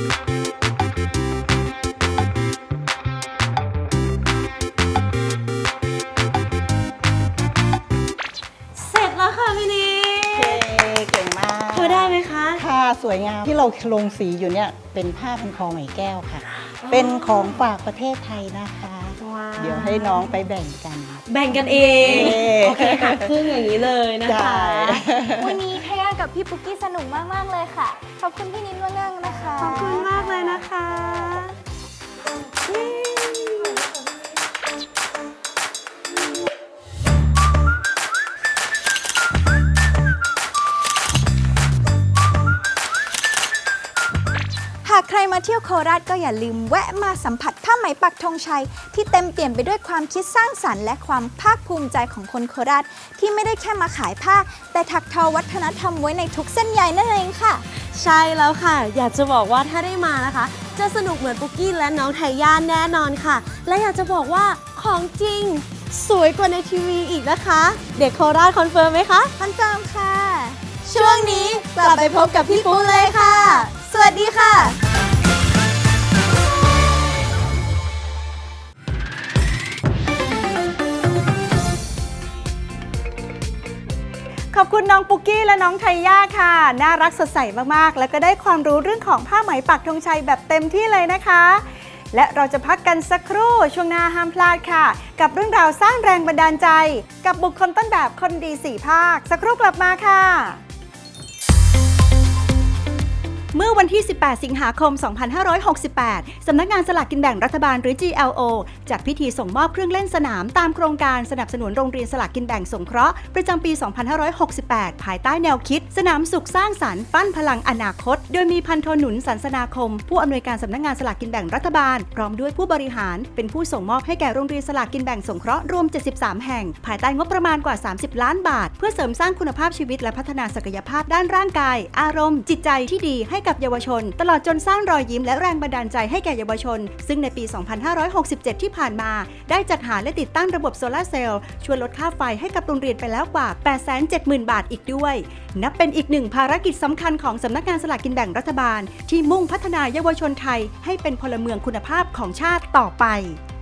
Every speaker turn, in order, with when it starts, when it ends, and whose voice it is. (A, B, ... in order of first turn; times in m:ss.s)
0:08.8-0:10.8 A
0:10.3-0:21.2 B
0:11.7-0:12.6 A
0:16.6-0:17.6 A
0:19.2-0:20.4 A
0:21.2-0:25.0 A
0:21.8-0:23.3 B
0:21.9-0:22.4 C
0:24.2-0:25.6 B
0:25.4-0:30.5 C
0:29.6-0:31.6 A
0:32.7-0:33.8 A
0:44.8-0:57.6 C
0:57.8-1:09.3 A
1:09.4-1:10.6 C
1:10.8-1:14.7 A
1:24.5-1:40.6 D
1:43.5-2:33.4 D